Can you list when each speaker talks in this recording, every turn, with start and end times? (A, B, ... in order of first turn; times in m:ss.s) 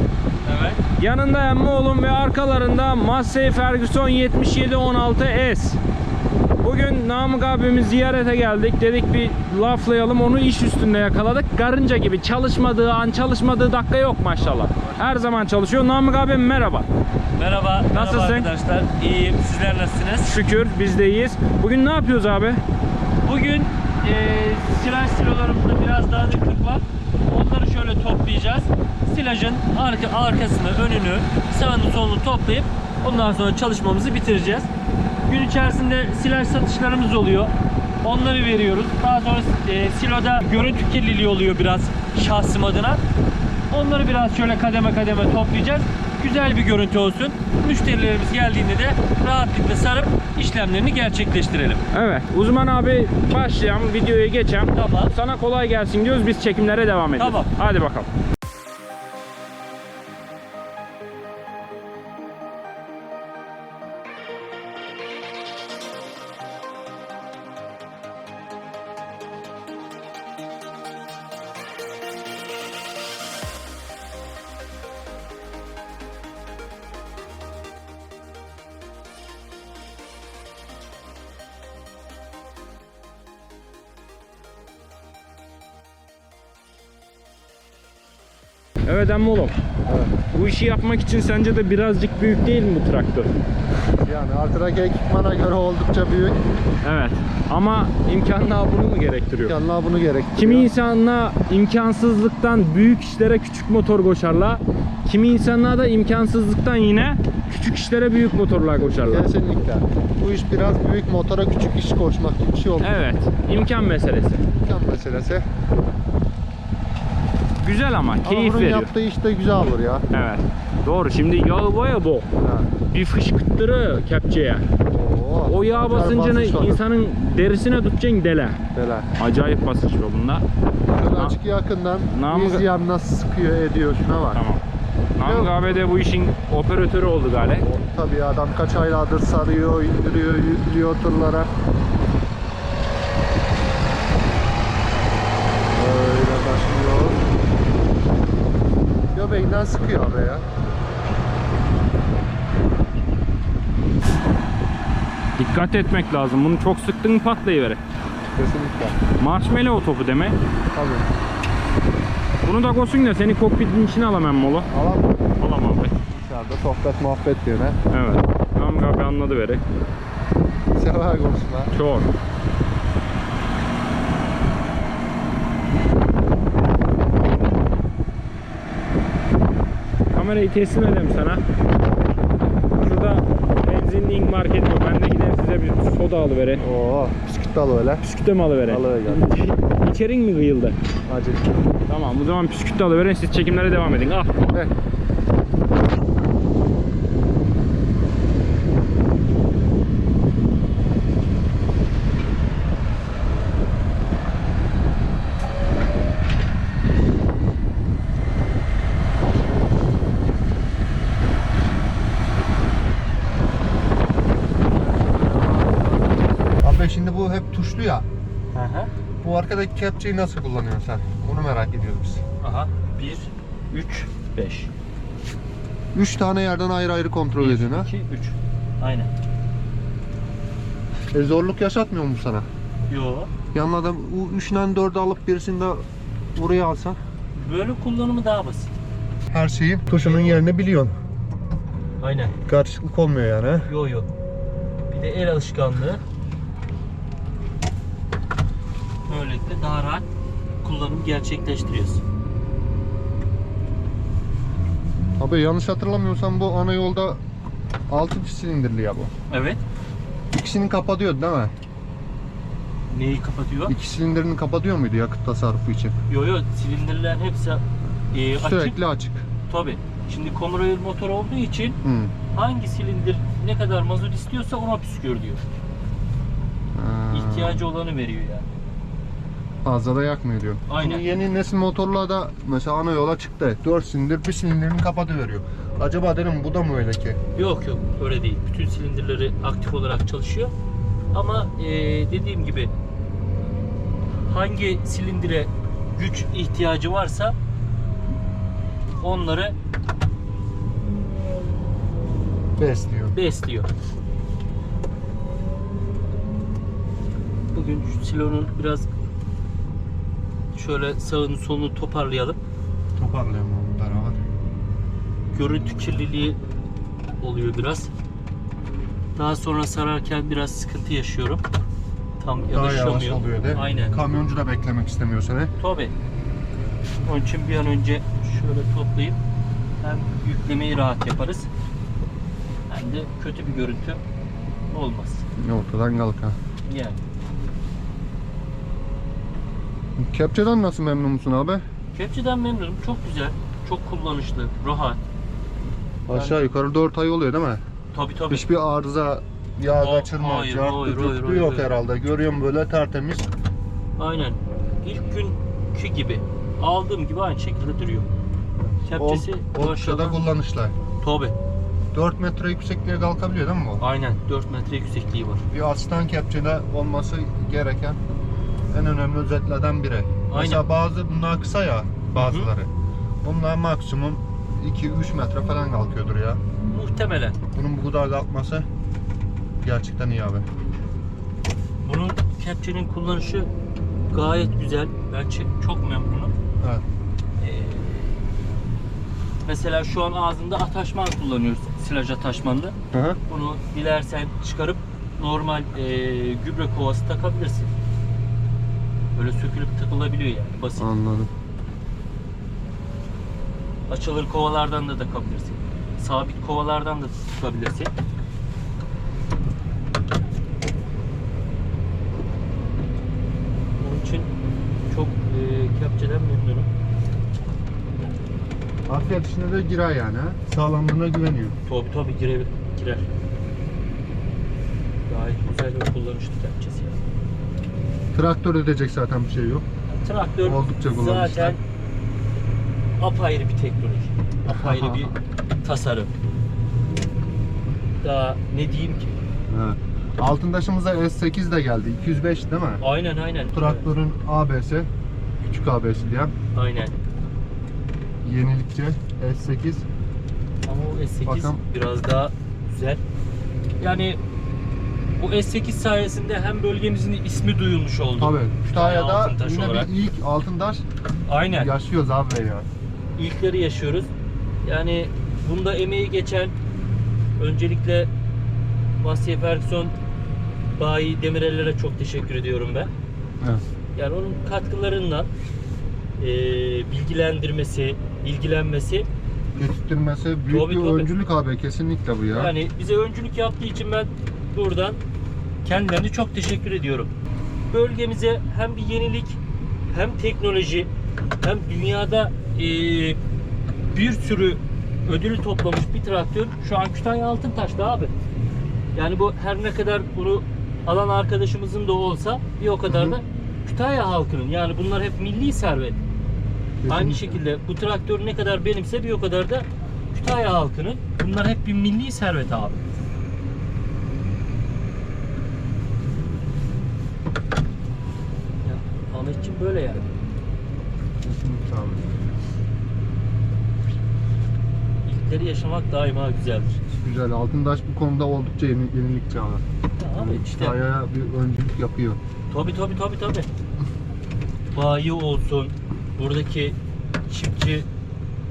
0:00.4-0:00.8 A
0:00.9-0:05.8 B
0:06.6-0:16.9 B
0:14.4-0:15.0 A
0:17.4-0:20.4 A
0:17.9-0:18.5 B
0:20.2-0:22.6 B
0:23.2-0:34.7 A
0:35.3-0:43.0 A
0:43.7-0:51.8 A
0:51.9-0:58.1 B
0:54.7-0:55.2 A
0:57.2-0:57.5 A
1:28.9-1:29.6 B
1:29.9-1:30.1 C
1:30.3-1:33.3 B
1:34.0-1:36.4 C
1:36.8-1:39.6 B
1:39.5-1:40.7 C
1:40.4-1:49.3 B
1:48.8-1:52.9 C
1:52.8-1:54.4 B
1:54.6-1:55.5 C
1:57.6-1:58.9 B
1:58.2-2:00.1 C
2:00.1-2:02.3 B
2:02.4-2:02.7 C
2:02.9-2:04.7 B
2:04.9-2:06.8 C
2:05.5-2:08.6 B
2:08.7-2:09.1 C
2:09.2-2:10.4 B
2:10.9-2:14.4 C
2:11.1-2:11.4 B
2:12.1-2:12.7 B
2:14.3-2:14.6 B
2:15.2-2:17.7 B
2:15.2-2:15.8 C
2:17.6-2:21.5 C
2:25.7-2:27.2 C
2:29.1-2:30.4 C
2:35.4-2:37.8 B
2:38.4-2:39.0 C
2:39.2-2:40.4 B
2:40.7-2:41.1 C
2:42.4-2:44.7 B
2:44.7-2:45.2 C
2:45.4-2:46.0 B
2:46.1-2:47.8 C
2:47.9-2:49.6 B
2:50.8-2:51.7 C
2:51.7-2:52.1 B
3:00.1-3:01.4 B
3:02.8-3:06.6 B
3:06.6-3:08.1 C
3:08.0-3:10.8 B
3:08.7-3:09.4 C
3:11.1-3:11.5 C
3:11.9-3:14.5 B
3:34.5-3:36.1 A
3:36.6-3:38.1 C
3:38.5-3:38.9 A
3:39.2-3:42.2 C
3:42.4-3:44.7 A
3:45.9-3:47.9 C
3:47.4-3:49.1 A
3:51.1-3:52.5 C
3:52.9-3:53.3 A
3:53.5-3:55.8 C
3:56.4-3:57.0 C
3:57.4-3:58.7 A
3:59.3-4:00.9 C
3:59.9-4:00.4 A
4:02.0-4:02.4 A
4:02.4-4:03.7 C
4:03.7-4:04.1 A
4:04.9-4:06.0 A
4:09.1-4:10.1 A
4:10.6-4:12.0 A
4:15.2-4:17.2 C
4:17.9-4:19.1 C
4:19.3-4:19.6 A
4:20.3-4:21.5 C
4:22.9-4:23.8 A
4:23.7-4:26.0 C
4:26.1-4:28.8 A
4:28.3-4:29.3 C
4:29.5-4:31.8 A
4:31.8-4:32.2 C
4:32.3-4:35.4 A
4:36.7-4:37.6 C
4:37.1-4:38.5 A
4:39.6-4:47.2 C
4:40.7-4:41.1 A
4:47.4-4:50.5 A
4:51.1-4:52.7 A
4:54.3-4:57.4 A
4:59.0-4:59.6 A
5:02.6-5:03.2 C
5:03.1-5:03.7 A
5:07.5-5:08.9 A
5:10.5-5:12.4 A
5:13.0-5:14.2 C
5:15.3-5:16.4 A
5:17.2-5:17.9 A
5:19.2-5:21.4 A
5:22.2-5:24.0 A
5:22.5-5:25.5 C
5:25.6-5:25.9 A
5:27.0-5:29.2 A
5:29.8-5:31.5 A
5:32.7-5:34.0 A
5:34.7-5:35.2 A
5:35.4-5:36.4 C
5:36.7-5:37.0 A
5:40.0-5:41.6 C
5:41.9-5:45.0 A
5:46.1-5:47.6 C
5:46.1-5:46.5 A
5:47.9-5:48.5 A
5:48.3-5:53.3 C
5:49.8-5:51.7 A
5:54.0-5:58.1 A
5:58.6-6:00.8 C
5:58.9-6:00.2 A
6:01.0-6:01.4 A
6:01.9-6:03.8 C
6:03.8-6:05.4 A
6:05.5-6:08.0 C
6:08.7-6:12.7 C
6:10.3-6:10.6 A
6:12.2-6:12.5 A
6:13.2-6:16.4 C
6:16.7-6:17.4 A
6:17.5-6:18.7 C
6:19.6-6:20.4 C
6:21.8-6:23.5 A
6:24.1-6:26.3 A
6:26.6-6:26.8 C
6:27.4-6:28.3 A
6:29.4-6:32.8 A
6:32.9-6:33.2 C
6:33.3-6:37.7 A
6:39.2-6:40.9 A
6:40.8-6:41.3 C
6:43.9-6:47.9 A
6:53.8-6:54.3 A
6:54.9-6:56.7 A
6:58.9-7:01.6 C
7:01.7-7:03.1 A
7:05.1-7:07.0 A
7:08.1-7:09.6 C
7:09.9-7:11.6 A
7:10.4-7:11.6 C
7:13.0-7:16.1 A
7:14.5-7:15.1 C
7:18.0-7:19.2 A
7:19.5-7:22.8 C
7:22.8-7:23.9 A
7:23.5-7:24.9 C
7:25.4-7:26.3 C
7:26.5-7:27.0 A
7:28.2-7:29.9 C
7:30.6-7:33.0 A
7:31.3-7:31.6 C
7:33.8-7:34.2 A
7:35.2-7:39.9 A
7:38.2-7:40.8 C
7:41.3-7:41.7 A
7:41.5-7:42.7 C
7:43.2-7:44.1 A
7:44.6-7:46.6 A
7:47.4-7:48.1 A
7:49.0-7:50.0 A
7:50.8-7:52.9 A
7:54.0-7:55.3 A
7:56.2-7:59.1 A
7:59.6-8:02.5 C
8:00.5-8:01.1 A
8:02.3-8:05.0 A
8:05.6-8:07.1 A
8:07.7-8:09.4 A
8:09.9-8:10.9 A
8:11.4-8:13.2 A
8:13.9-8:18.1 A
8:19.0-8:26.0 A
8:22.9-8:23.2 C
8:26.8-8:27.4 C
8:26.9-8:32.8 A
8:38.6-8:40.1 A
8:41.2-8:42.2 C
8:45.1-8:46.8 A
8:46.9-8:49.6 C
8:50.0-8:50.8 A
8:50.2-8:52.2 C
8:52.5-8:53.5 A
8:54.7-8:56.8 A
8:57.3-8:57.9 A